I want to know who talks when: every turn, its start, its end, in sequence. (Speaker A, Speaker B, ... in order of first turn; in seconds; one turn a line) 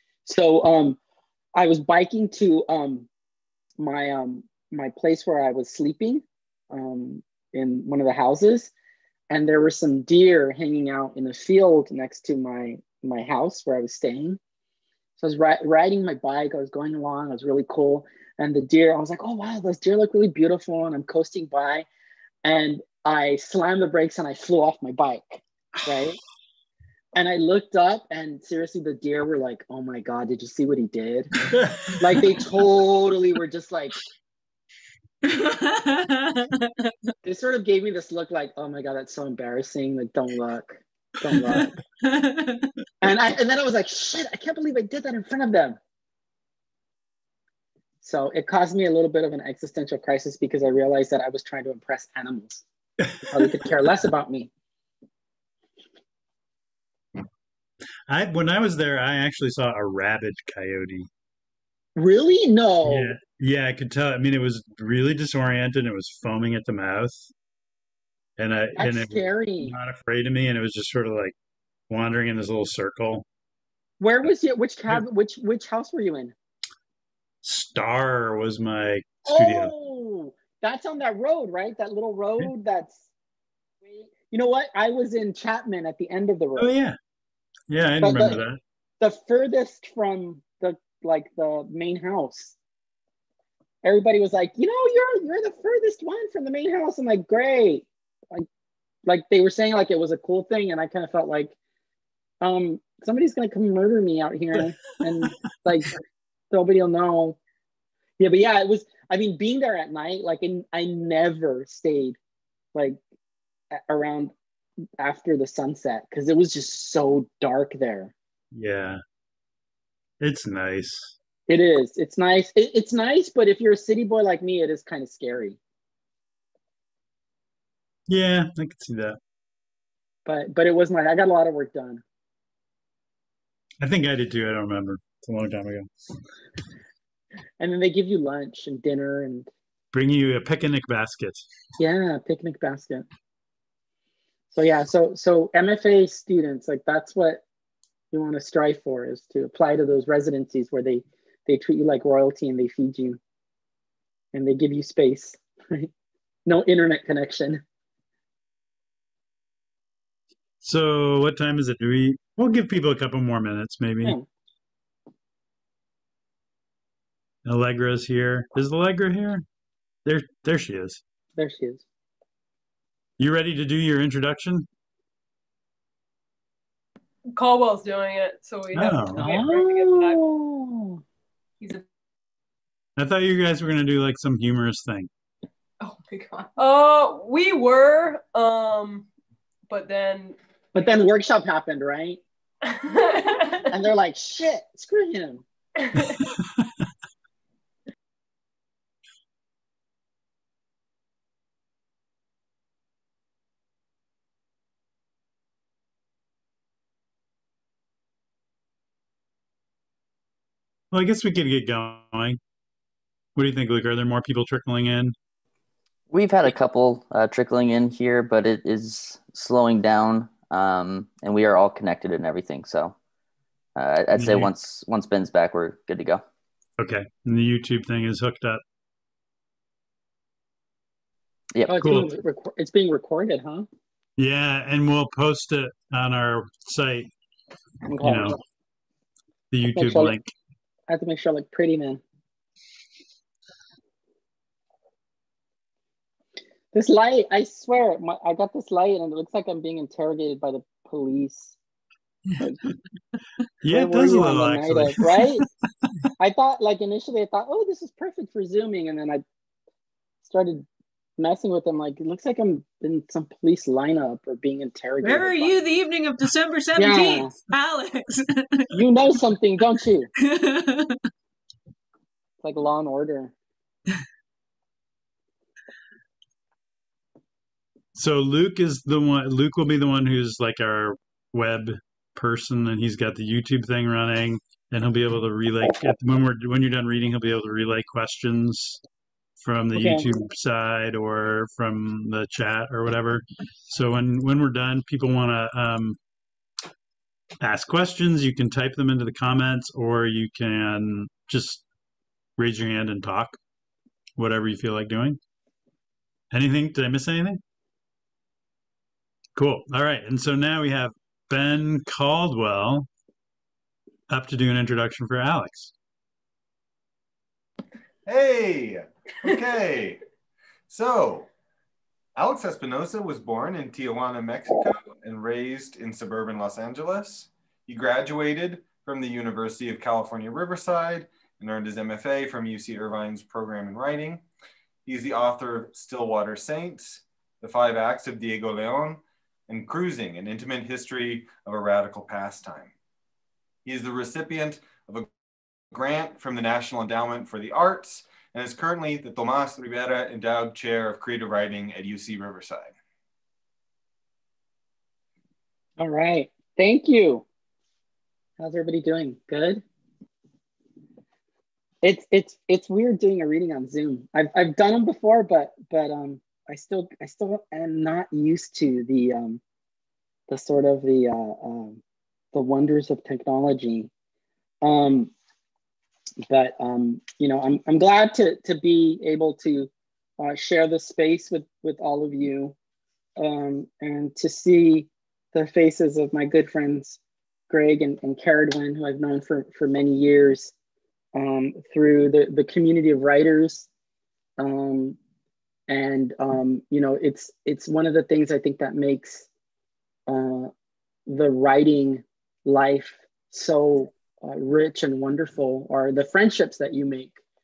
Speaker A: 0.2-1.0
Speaker A: 1.6-3.1
Speaker A: 3.8-8.7
Speaker A: 9.3-14.4
Speaker A: 15.2-21.9
Speaker A: 22.4-26.2
Speaker A: 27.2-31.3
Speaker A: 32.0-34.0
Speaker B: 35.3-36.7
Speaker A: 37.2-41.7
Speaker B: 41.3-42.7
Speaker A: 43.0-45.8
Speaker A: 48.0-52.6
Speaker C: 53.1-53.6
Speaker A: 53.2-54.5
Speaker C: 58.1-61.1
Speaker A: 62.0-63.2
Speaker C: 62.8-67.3
Speaker C: 68.4-71.3
Speaker A: 68.8-69.8
Speaker C: 71.9-73.2
Speaker A: 74.0-76.3
Speaker C: 77.4-79.7
Speaker A: 79.3-83.0
Speaker A: 83.8-86.7
Speaker C: 86.6-87.0
Speaker C: 87.7-88.6
Speaker A: 88.0-88.4
Speaker A: 89.0-92.6
Speaker A: 93.8-98.5
Speaker A: 99.1-101.5
Speaker A: 102.4-106.0
Speaker A: 106.5-107.4
Speaker A: 108.2-112.2
Speaker A: 113.7-114.3
Speaker A: 115.0-118.1
Speaker C: 118.5-119.0
Speaker C: 120.2-121.2
Speaker A: 121.5-125.6
Speaker C: 128.1-129.2
Speaker A: 130.3-132.0
Speaker C: 133.8-135.9
Speaker A: 137.6-139.5
Speaker C: 139.9-141.4
Speaker A: 141.8-143.1
Speaker A: 144.5-147.4
Speaker A: 148.1-153.2
Speaker A: 154.3-155.9
Speaker A: 156.5-157.6
Speaker C: 160.6-164.2
Speaker C: 167.4-169.4
Speaker C: 170.1-171.0
Speaker A: 171.4-171.8
Speaker C: 173.2-174.7
Speaker D: 177.3-180.2
Speaker C: 178.7-179.3
Speaker A: 179.2-181.0
Speaker D: 181.6-181.8
Speaker C: 183.0-185.1
Speaker D: 185.9-189.1
Speaker D: 189.7-190.9
Speaker A: 190.7-192.2
Speaker D: 192.7-193.7
Speaker A: 193.7-195.4
Speaker D: 195.9-196.2
Speaker C: 210.9-212.4
Speaker C: 213.4-215.2
Speaker E: 216.1-223.0
Speaker E: 223.8-226.2
Speaker C: 224.1-224.5
Speaker C: 226.8-228.6
Speaker E: 231.6-232.0
Speaker A: 231.7-233.7
Speaker C: 231.8-232.1
Speaker C: 234.2-237.1
Speaker A: 237.8-238.4
Speaker C: 238.0-238.4
Speaker C: 239.5-240.3
Speaker A: 239.7-240.2
Speaker A: 240.9-242.0
Speaker A: 246.7-251.6
Speaker C: 253.6-255.5
Speaker A: 253.7-255.4
Speaker A: 256.2-259.2
Speaker A: 260.2-260.6
Speaker A: 261.2-265.6
Speaker B: 265.0-269.2
Speaker A: 266.8-267.3
Speaker A: 268.7-270.1
Speaker B: 270.2-271.0
Speaker A: 272.4-273.3
Speaker C: 277.9-288.8
Speaker C: 289.4-296.0
Speaker A: 289.7-290.1
Speaker C: 297.4-301.6
Speaker C: 302.4-303.4
Speaker C: 304.2-305.2
Speaker C: 306.3-307.4
Speaker C: 309.4-312.9
Speaker C: 314.1-315.7
Speaker F: 318.1-320.0
Speaker F: 320.7-321.3
Speaker F: 322.2-334.2
Speaker F: 334.9-342.7
Speaker F: 343.7-345.1
Speaker F: 345.7-352.7
Speaker A: 355.8-357.2
Speaker A: 358.4-359.6
Speaker A: 361.8-369.4
Speaker A: 370.3-371.8
Speaker A: 372.3-373.9
Speaker A: 374.6-375.1
Speaker A: 376.3-382.6
Speaker A: 383.2-387.0
Speaker A: 387.5-390.5
Speaker A: 391.1-393.7
Speaker A: 394.4-395.0
Speaker A: 395.7-399.3
Speaker A: 400.1-400.5
Speaker A: 401.1-407.1